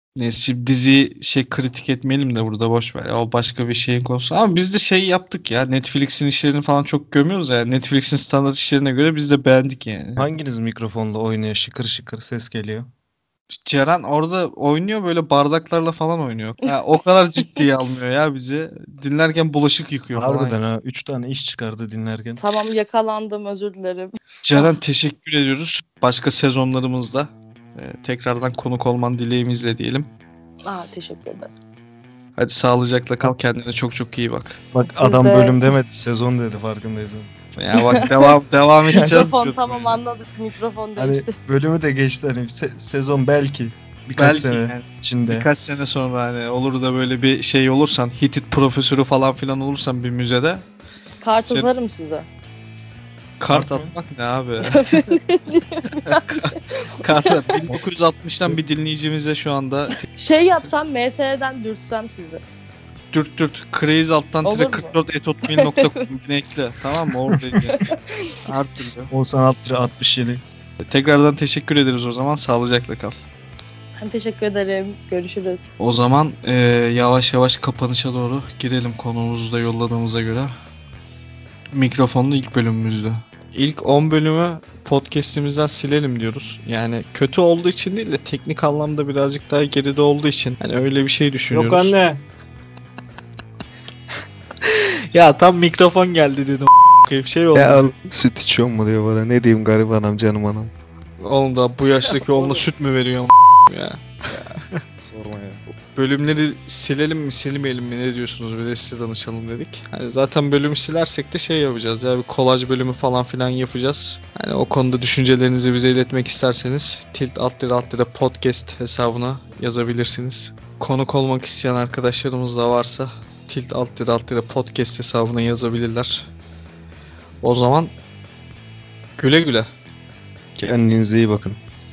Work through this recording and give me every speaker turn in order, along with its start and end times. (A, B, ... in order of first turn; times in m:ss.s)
0:00.2-0:10.3 A
0:10.2-0:12.9 B
0:13.5-0:20.6 A
0:20.1-0:22.4 B
0:22.4-0:24.7 C
0:24.4-0:30.1 A
0:30.7-0:31.5 C
0:32.4-0:34.6 A
0:34.7-0:37.3 B
0:34.9-0:35.7 C
0:37.6-0:40.0 A
0:37.7-0:38.4 C
0:38.9-0:41.4 C
0:38.9-0:39.3 B
0:41.0-0:45.5 B
0:44.2-0:50.6 A
0:51.2-0:52.3 C
0:53.4-0:55.1 A
0:53.5-0:53.9 B
0:54.7-0:57.6 C
0:56.0-1:00.0 A
1:00.1-1:02.4 C
1:03.1-1:07.8 A
1:04.4-1:06.0 C
1:07.7-1:08.4 C
1:08.4-1:09.1 A
1:09.1-1:10.4 B
1:10.8-1:13.2 A
1:14.0-1:15.7 C
1:15.8-1:20.5 A
1:21.7-1:31.9 A
1:31.5-1:32.2 B
1:34.6-1:37.9 A
1:37.5-1:40.7 B
1:41.2-1:44.8 A
1:42.2-1:42.7 B
1:45.0-1:45.6 B
1:45.9-2:06.3 A
2:07.4-2:07.9 A
2:09.2-2:09.7 A
2:10.6-2:11.6 B